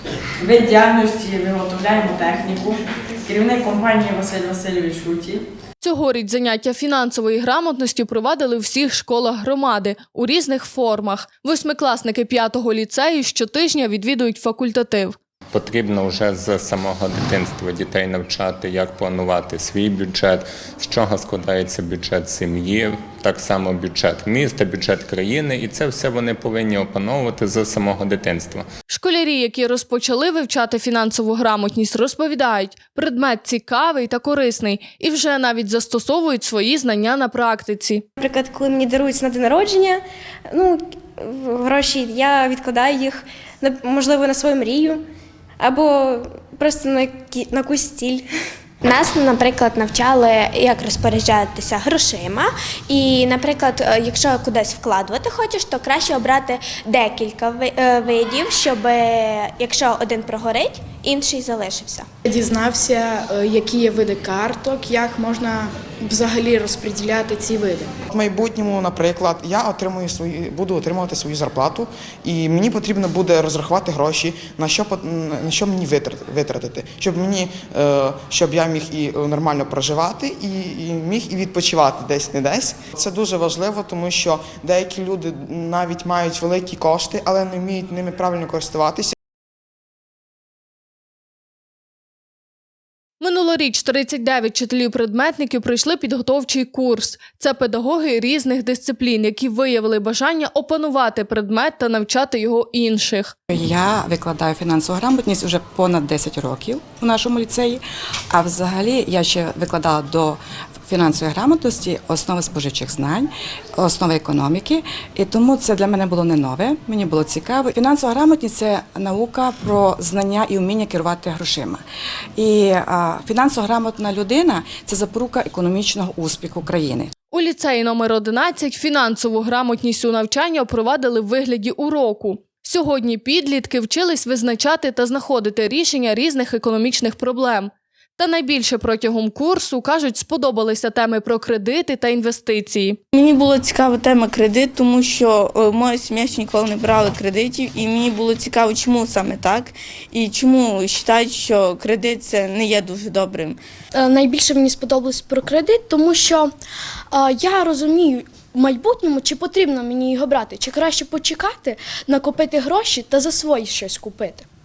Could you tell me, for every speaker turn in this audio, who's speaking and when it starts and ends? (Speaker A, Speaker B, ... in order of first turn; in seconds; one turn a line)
Speaker A: 0.4-5.4
Speaker B: 5.8-15.2
Speaker C: 15.5-28.6
Speaker B: 28.9-38.0
Speaker D: 38.2-45.0
Speaker D: 45.6-48.3
Speaker E: 48.8-62.1
Speaker F: 62.2-67.9
Speaker G: 68.1-89.1
Speaker B: 93.2-103.3
Speaker H: 103.5-121.8
Speaker H: 122.4-127.1
Speaker B: 127.3-143.0
Speaker I: 143.1-153.6
Speaker J: 153.9-156.5
Speaker J: 157.1-164.4